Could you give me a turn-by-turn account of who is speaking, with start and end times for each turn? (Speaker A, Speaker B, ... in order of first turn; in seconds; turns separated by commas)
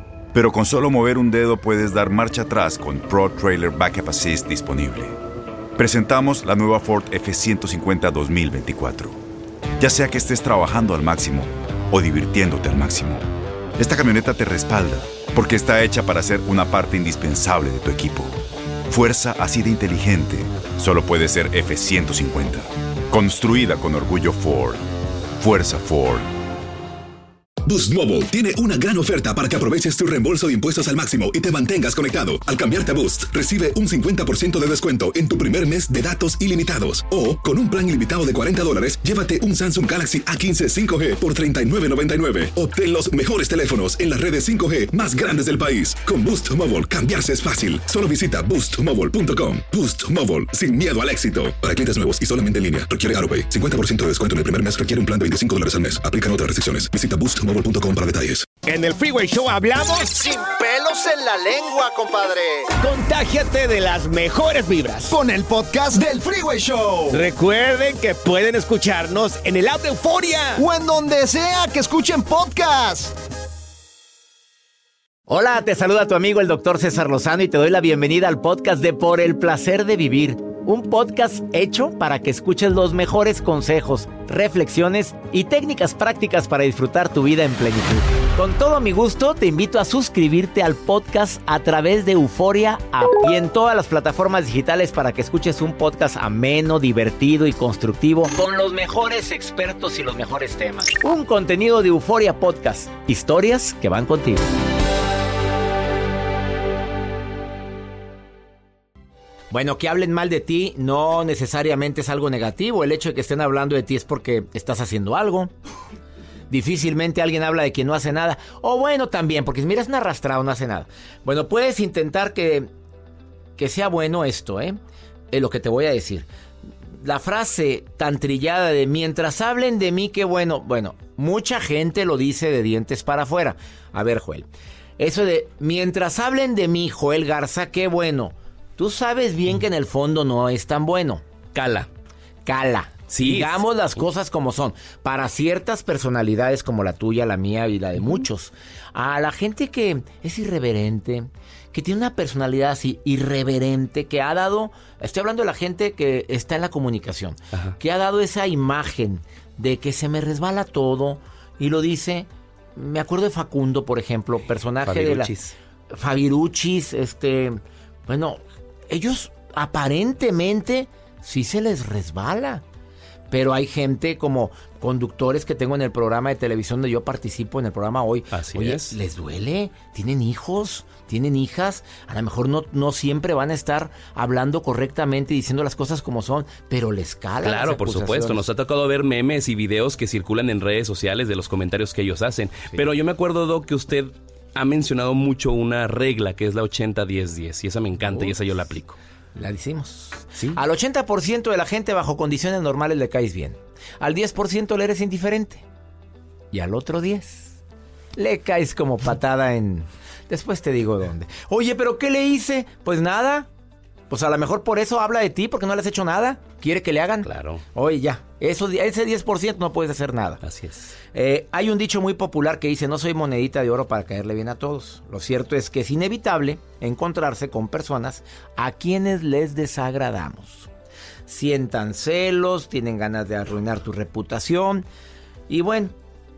Speaker A: 0.3-5.2, Speaker A: 5.8-9.2, Speaker A: 9.8-24.8, Speaker A: 25.4-26.3, Speaker B: 27.6-58.5, Speaker C: 58.7-62.7, Speaker D: 59.1-59.6, Speaker D: 62.8-65.1, Speaker C: 65.1-67.2, Speaker D: 67.1-70.6, Speaker C: 70.6-73.2, Speaker D: 75.3-104.5, Speaker D: 109.5-115.5, Speaker D: 116.5-122.7, Speaker D: 123.6-124.8, Speaker D: 125.3-126.3, Speaker D: 127.0-134.5, Speaker D: 135.0-141.9, Speaker D: 142.5-165.3, Speaker E: 143.1-143.6, Speaker E: 164.8-165.5, Speaker D: 165.9-172.6, Speaker D: 173.3-188.5, Speaker E: 178.3-179.0, Speaker E: 187.4-199.0, Speaker D: 198.0-198.3, Speaker D: 199.4-205.6, Speaker E: 200.3-200.6, Speaker D: 206.5-207.6, Speaker D: 208.2-213.5, Speaker D: 214.1-220.4, Speaker E: 217.2-217.6, Speaker E: 220.4-220.9, Speaker D: 221.1-230.7, Speaker D: 231.3-234.8, Speaker D: 235.5-235.9